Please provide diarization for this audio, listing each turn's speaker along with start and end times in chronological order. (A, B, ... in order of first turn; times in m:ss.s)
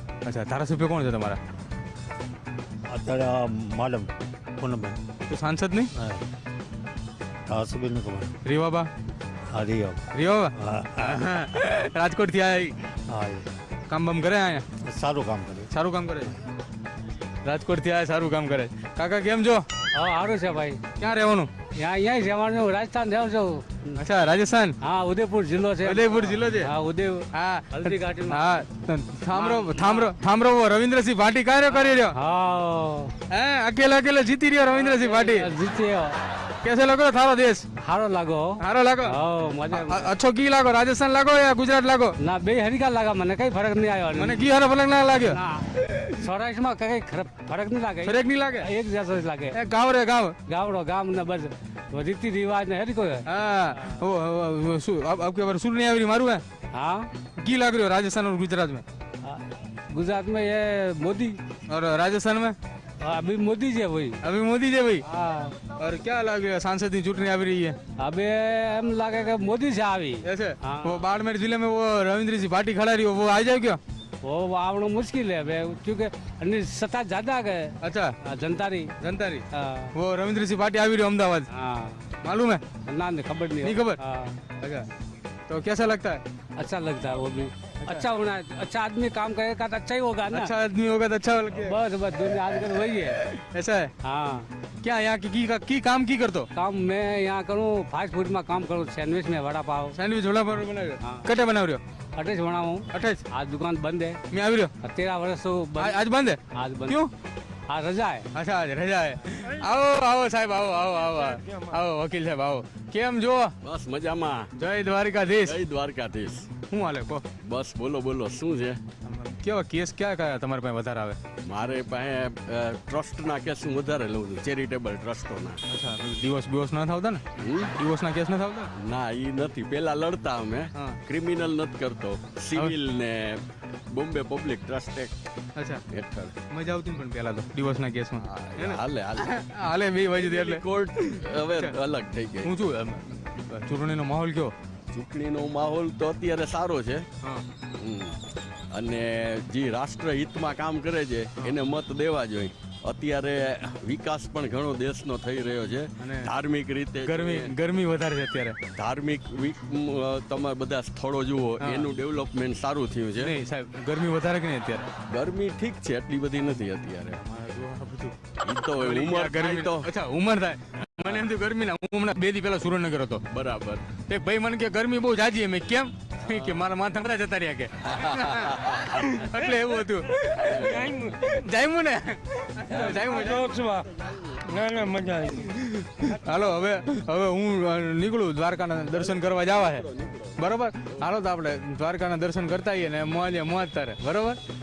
0:00.2-0:01.4 A
0:02.9-0:05.0 B
0:05.2-0:05.9 A
0:06.0-0:06.2 B
0:07.5-0:08.3 B
0:08.4-0:08.9 A
0:09.5-0:10.0 B
0:10.1-0:12.8 A
0:10.6-0:11.2 B
0:13.1-0:13.5 B
0:13.9-0:14.6 A
0:14.8-0:15.7 B
0:15.7-0:16.3 A
0:17.4-0:19.6 A
0:20.0-0:20.8 C
0:21.0-0:21.5 A
0:21.8-0:24.0 C
0:24.0-0:24.8 A
0:24.8-0:28.5 C
0:25.8-0:26.7 A
0:27.3-0:32.2 A
0:29.3-0:30.1 C
0:31.7-0:33.1 C
0:33.3-0:35.5 A
0:34.7-0:36.2 C
0:36.6-0:37.7 A
0:37.8-0:40.1 C
0:38.6-0:39.2 A
0:39.7-0:42.2 A
0:42.2-0:44.5 C
0:44.2-0:46.2 A
0:45.2-0:49.6 C
0:48.0-0:48.7 A
0:49.5-0:50.4 A
0:50.5-0:53.9 C
0:53.3-0:56.4 A
0:56.7-0:57.1 C
0:57.4-0:58.8 A
0:59.2-1:01.4 C
1:01.7-1:02.6 A
1:03.0-1:04.2 C
1:04.2-1:05.0 A
1:05.1-1:05.6 C
1:05.8-1:07.8 A
1:08.0-1:11.0 C
1:10.2-1:13.8 A
1:14.2-1:17.7 C
1:17.8-1:18.1 A
1:18.2-1:18.9 C
1:19.0-1:21.5 A
1:19.5-1:19.9 C
1:21.5-1:22.1 C
1:22.2-1:22.6 A
1:22.9-1:24.4 C
1:23.6-1:24.0 A
1:24.6-1:24.9 A
1:25.5-1:26.2 A
1:26.6-1:30.5 C
1:30.3-1:33.9 A
1:31.5-1:33.2 C
1:34.0-1:34.5 C
1:34.8-1:36.5 A
1:36.5-1:40.0 C
1:39.9-1:41.8 A
1:41.0-1:41.3 C
1:42.2-1:44.2 C
1:42.9-1:43.2 A
1:44.3-1:44.7 A
1:44.8-1:46.0 C
1:45.8-1:47.1 A
1:46.5-1:47.0 C
1:47.7-1:48.3 C
1:48.3-1:53.5 A
1:51.0-1:51.8 D
1:53.6-1:54.5 E
1:54.6-1:55.6 A
1:55.4-1:56.6 E
1:56.7-1:57.2 A
1:57.4-1:58.8 E
1:59.0-2:01.2 A
2:01.5-2:05.6 E
2:05.7-2:07.2 A
2:07.4-2:07.8 E
2:07.8-2:08.7 A
2:08.8-2:13.4 E
2:13.9-2:15.1 E
2:15.6-2:15.8 A
2:15.9-2:16.4 E
2:16.5-2:21.8 A
2:18.2-2:19.3 E
2:20.2-2:22.5 E
2:22.4-2:24.5 A
2:24.9-2:27.1 E
2:27.8-2:28.2 E
2:28.7-2:37.5 E
2:36.0-2:36.3 A
2:37.0-2:38.6 A
2:38.8-2:43.3 E
2:41.6-2:41.9 A
2:43.2-2:44.9 A
2:45.1-2:47.2 E
2:47.2-2:48.2 A
2:48.4-2:49.9 E
2:48.8-2:53.2 A
2:53.3-2:53.9 E
2:54.0-3:03.5 A
2:56.3-2:56.7 E
2:58.0-2:58.9 E
3:00.5-3:00.9 E
3:00.7-3:01.4 D
3:02.7-3:03.9 D
3:04.4-3:05.5 D
3:05.6-3:09.9 A
3:09.0-3:11.0 E
3:10.4-3:14.4 A